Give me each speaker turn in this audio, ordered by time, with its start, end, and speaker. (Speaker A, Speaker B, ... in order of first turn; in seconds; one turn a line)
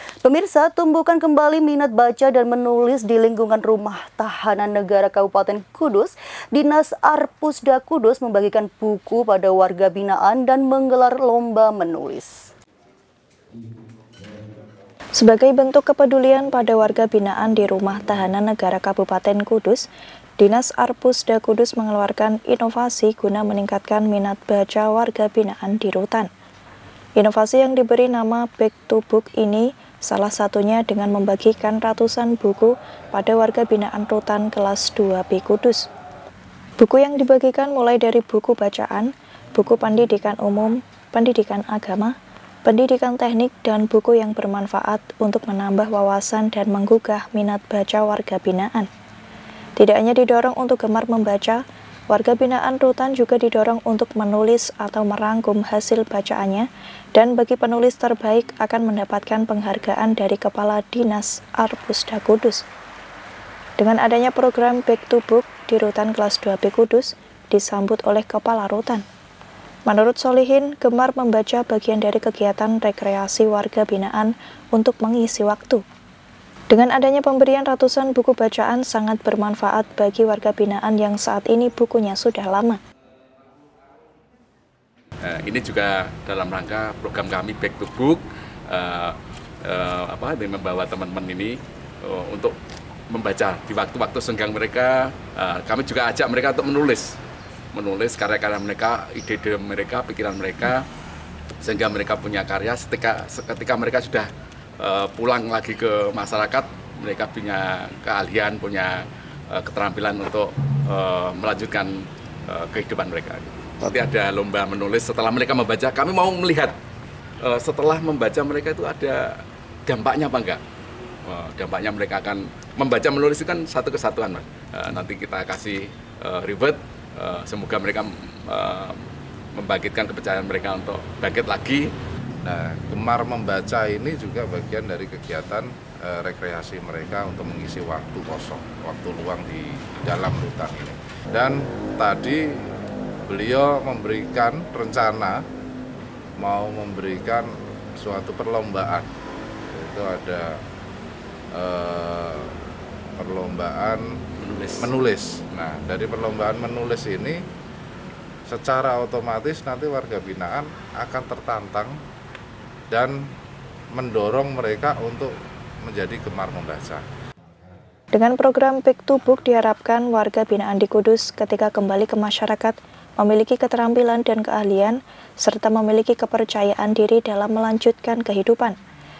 Speaker A: 0.2-12.5
Speaker B: 15.2-19.9
Speaker B: 20.4-26.3
Speaker B: 27.2-35.9
Speaker B: 36.8-42.1
Speaker B: 42.7-48.9
Speaker B: 49.8-62.6
Speaker B: 63.8-69.0
Speaker B: 69.9-75.8
Speaker B: 76.7-82.8
Speaker C: 85.2-92.6
Speaker C: 93.1-97.2
Speaker C: 97.7-100.9
Speaker C: 101.6-116.8
Speaker C: 117.4-120.6
Speaker C: 121.2-129.0
Speaker C: 129.6-131.9
Speaker D: 132.4-142.7
Speaker D: 143.3-145.4
Speaker D: 146.4-149.1
Speaker D: 149.7-150.6
Speaker D: 151.5-152.6
Speaker D: 153.2-154.2
Speaker C: 154.4-154.9
Speaker D: 154.8-157.4
Speaker D: 158.5-162.0
Speaker D: 162.9-163.2
Speaker D: 163.9-167.0
Speaker B: 168.1-178.8